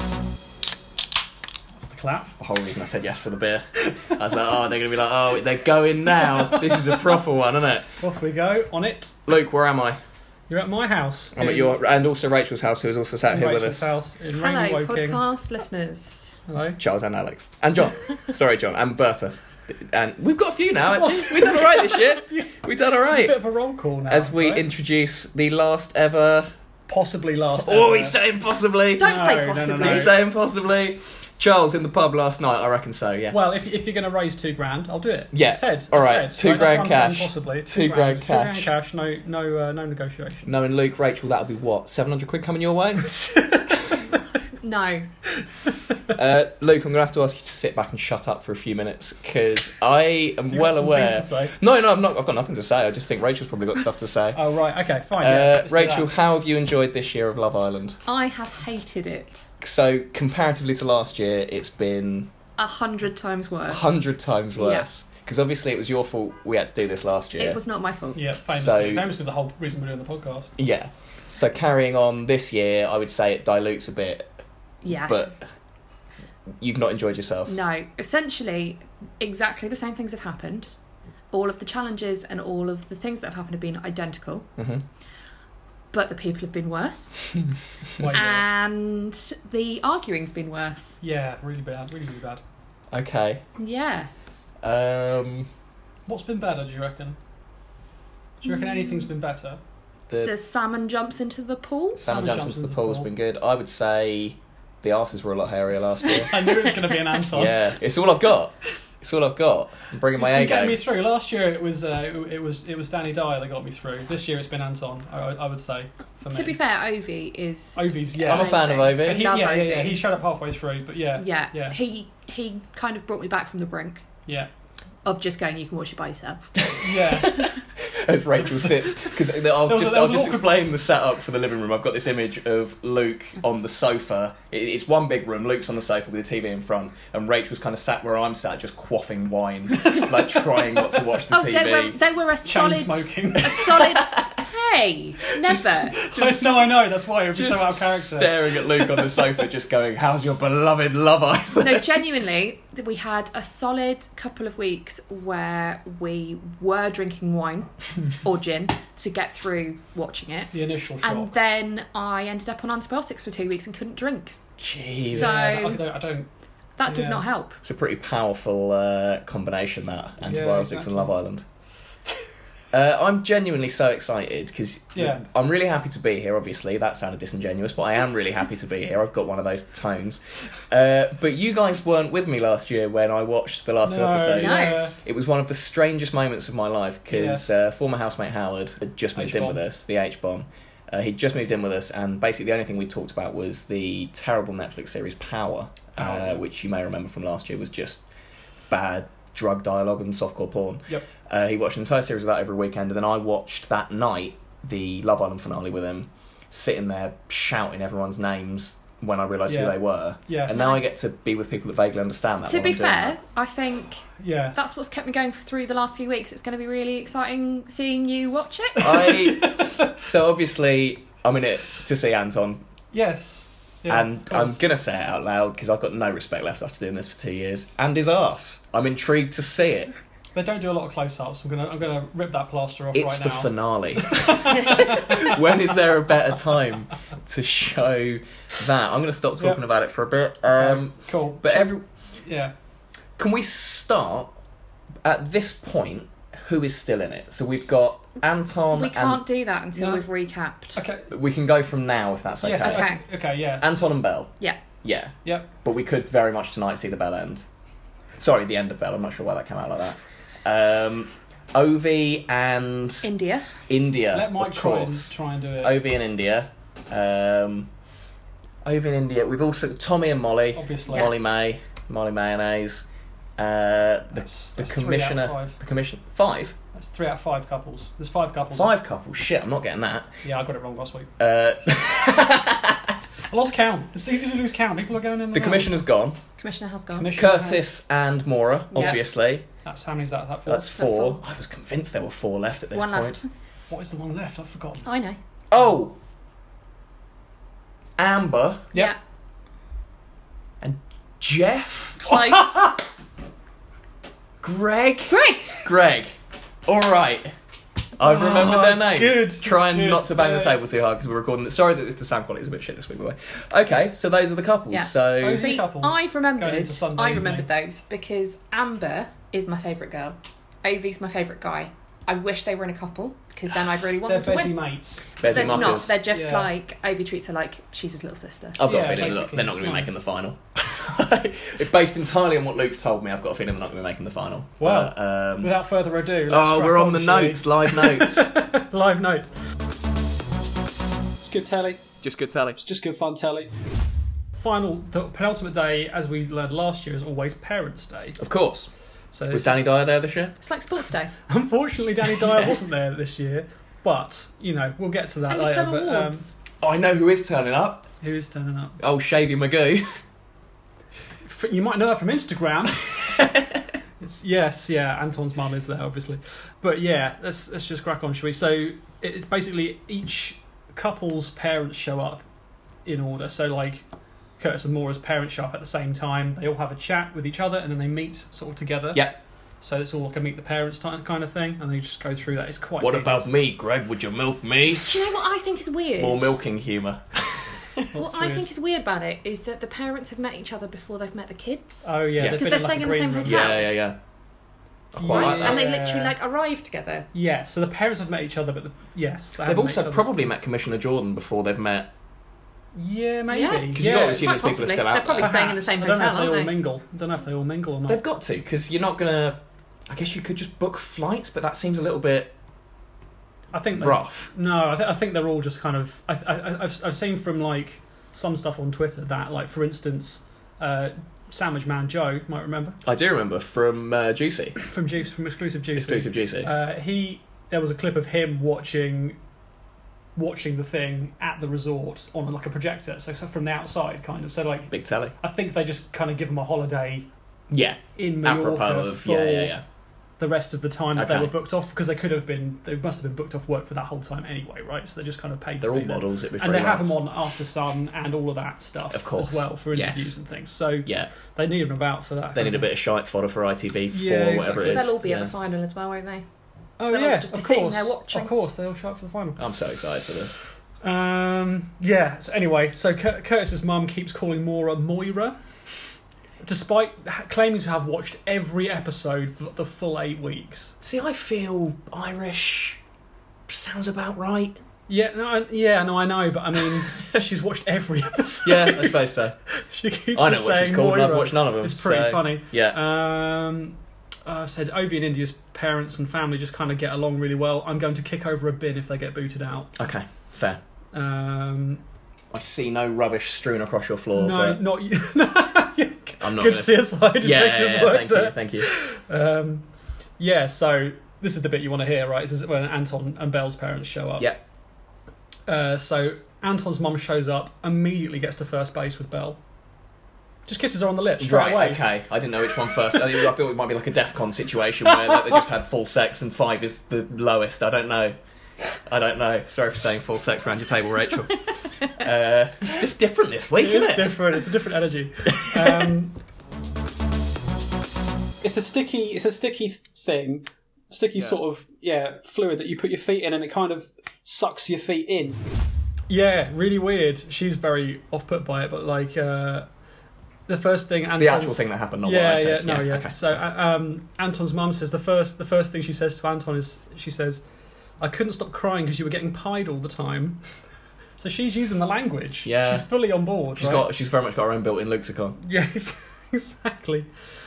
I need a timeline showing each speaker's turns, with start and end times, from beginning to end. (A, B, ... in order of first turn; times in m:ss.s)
0:01.7-0:02.4 A
0:02.4-0:07.9 B
0:06.3-0:07.0 A
0:08.0-0:09.2 A
0:09.2-0:10.0 B
0:10.5-0:11.8 A
0:11.4-0:13.9 B
0:13.3-0:15.2 A
0:14.3-0:16.4 C
0:16.5-0:16.8 A
0:16.8-0:23.4 B
0:20.9-0:22.6 A
0:23.1-0:24.7 A
0:24.1-0:26.5 B
0:26.9-0:28.2 A
0:27.6-0:29.2 B
0:29.0-0:30.2 C
0:29.0-0:30.1 A
0:29.8-0:33.4 B
0:33.3-0:40.5 A
0:35.3-0:38.7 B
0:40.4-0:43.4 B
0:43.3-0:43.7 A
0:44.6-0:45.1 C
0:46.1-0:54.4 B
0:50.5-0:51.6 A
0:54.3-0:56.1 A
0:55.2-0:58.0 B
0:58.0-0:59.5 C
0:59.6-1:02.3 B
1:02.6-1:04.9 C
1:03.7-1:07.6 B
1:07.4-1:08.2 C
1:08.1-1:10.5 A
1:08.5-1:09.1 B
1:10.6-1:14.3 B
1:14.8-1:15.3 C
1:14.9-1:15.4 B
1:16.6-1:17.6 B
1:17.5-1:20.7 C
1:21.3-1:24.5 C
1:24.6-1:24.8 B
1:25.9-1:27.3 C
1:27.9-1:28.5 A
1:28.0-1:31.0 C
1:31.0-1:32.4 A
1:32.9-1:33.4 B
1:33.6-1:34.1 C
1:34.6-1:35.5 B
1:36.1-1:37.2 A
1:38.4-1:39.6 A
1:38.5-1:39.1 C
1:40.2-1:42.1 C
1:42.0-1:46.4 B
1:42.0-1:43.1 A
1:46.3-1:47.6 A
1:47.3-1:50.8 B
1:50.2-1:56.6 A
1:56.3-2:00.0 C
1:57.8-2:01.8 A
1:58.3-1:59.3 B
2:01.2-2:04.1 C
2:05.0-2:07.6 C
2:06.7-2:22.0 B
2:06.8-2:07.4 A
2:09.4-2:10.6 A
2:21.3-2:26.6 C
2:22.4-2:23.8 A
2:23.8-2:24.4 B
2:25.4-2:26.5 B
2:25.9-2:29.3 A
2:27.3-2:32.1 B
2:31.6-2:44.4 C
2:40.5-2:41.3 A
2:44.6-2:45.8 B
2:45.0-2:45.8 C
2:45.1-2:46.3 A
2:46.8-2:47.6 C
2:46.9-2:47.2 A
2:47.6-2:51.4 B
2:50.2-2:51.2 A
2:52.7-3:18.0 B
2:54.9-2:55.2 A
3:03.8-3:04.9 A
3:04.4-3:04.8 C
3:07.1-3:07.6 A
3:09.2-3:09.6 A
3:16.0-3:16.4 A
3:18.7-3:33.2 B
3:29.5-3:30.6 A
3:30.5-3:30.9 C
3:32.5-3:38.9 C
3:34.2-3:34.6 A
3:38.8-3:39.9 A
3:38.8-3:42.6 B
3:42.9-3:44.6 A
3:43.9-3:49.9 B
3:50.3-3:55.5 A
3:52.9-4:01.8 B
4:00.5-4:02.5 A
4:03.2-4:04.3 B
4:05.0-4:09.2 B
4:08.7-4:10.8 C
4:09.8-4:10.0 A
4:10.8-4:11.1 A
4:11.1-4:12.9 B
4:12.4-4:13.9 A
4:12.6-4:13.0 C
4:13.6-4:14.3 B
4:14.8-4:17.4 B
4:18.2-4:23.1 B
4:23.0-4:23.5 C
4:23.7-4:27.7 B
4:24.1-4:25.8 A
4:28.6-4:32.9 B
4:30.6-4:31.1 A
4:33.4-4:36.6 B
4:34.1-4:35.6 A
4:36.7-4:38.7 A
4:38.5-4:40.1 B
4:40.2-4:41.1 A
4:41.2-4:43.0 B
4:43.3-4:45.8 A
4:45.3-4:46.2 B
4:46.4-4:47.2 C
4:46.9-4:47.6 A
4:47.1-4:49.4 B
4:48.7-4:49.0 A
4:49.6-4:50.7 A
4:50.4-4:53.2 B
4:50.7-4:51.2 C
4:52.7-4:53.3 C
4:53.7-4:54.9 A
4:54.8-4:55.2 C
4:55.5-4:56.0 B
4:58.0-4:58.7 B
5:00.6-5:02.0 B
5:02.0-5:02.8 C
5:02.0-5:02.8 A
5:04.4-5:06.2 B
5:05.1-5:05.6 C
5:06.7-5:07.3 B
5:08.0-5:15.5 B
5:08.0-5:10.6 A
5:14.7-5:24.6 C
5:15.2-5:17.5 A
5:24.0-5:26.5 A
5:25.2-5:25.9 B
5:25.2-5:28.6 C
5:28.6-5:35.6 B
5:28.6-5:30.0 A
5:34.6-5:39.3 A
5:36.3-5:38.3 B
5:41.2-5:41.9 A
5:42.0-5:42.6 B
5:42.6-5:43.6 A
5:44.4-5:48.2 A
5:48.2-5:48.7 B
5:49.1-5:49.6 A
5:49.3-5:50.4 B
5:50.4-5:51.1 C
5:51.3-5:56.3 A
5:55.3-5:56.3 C
5:56.6-5:57.9 B
5:58.0-5:58.8 A
5:58.8-6:00.0 B
6:01.2-6:03.0 A
6:04.0-6:12.2 A
6:12.8-6:13.8 A
6:14.4-6:19.1 A
6:18.9-6:19.2 B
6:19.6-6:23.3 A
6:22.8-6:25.1 B
6:24.8-6:26.4 C
6:26.0-6:27.8 B
6:27.9-6:28.5 A
6:27.9-6:33.7 C
6:31.8-6:33.6 A
6:32.2-6:32.5 B
6:33.2-6:34.0 B
6:34.9-6:35.7 B
6:35.0-6:36.1 A
6:35.1-6:37.1 C
6:37.1-6:40.4 A
6:39.4-6:41.9 B
6:42.8-6:44.5 A
6:43.3-6:46.6 C
6:43.7-6:45.4 B
6:45.2-6:48.0 A
6:47.9-6:52.3 B
6:53.5-7:02.8 A
6:53.8-6:54.3 B
7:02.8-7:04.6 B
7:04.6-7:09.2 A
7:05.8-7:06.5 B
7:10.2-7:17.1 A
7:14.7-7:15.1 B
7:17.5-7:19.6 B
7:17.9-7:19.6 A
7:20.2-7:32.7 A
7:21.0-7:21.3 B
7:25.6-7:27.0 B
7:28.9-7:30.2 B
7:30.8-7:31.1 B
7:32.3-7:35.3 B
7:33.9-7:34.9 A
7:34.5-7:36.2 C
7:36.8-7:39.4 A
7:36.9-7:38.3 C
7:39.4-7:40.4 B
7:40.8-7:45.4 A
7:46.4-7:50.8 A
7:50.8-7:52.8 B
7:53.5-7:54.6 B
7:54.9-8:09.7 A
7:58.4-7:59.4 B
8:00.1-8:02.8 B
8:09.8-8:10.6 B
8:10.9-8:11.8 A
8:12.3-8:14.6 B
8:14.1-8:19.6 A
8:16.2-8:18.7 B
8:20.2-8:24.3 A
8:25.5-8:29.4 A
8:30.5-8:31.8 A
8:31.2-8:38.2 B
8:34.9-8:35.4 A
8:38.8-8:44.2 B
8:43.6-8:46.2 A
8:45.3-8:45.9 B
8:48.4-8:55.4 A
8:56.1-8:59.7 A
9:00.5-9:07.4 A
9:01.2-9:03.4 B
9:08.0-9:10.4 A
9:11.2-9:13.8 A
9:12.4-9:12.8 B
9:13.6-9:15.4 B
9:15.4-9:17.1 A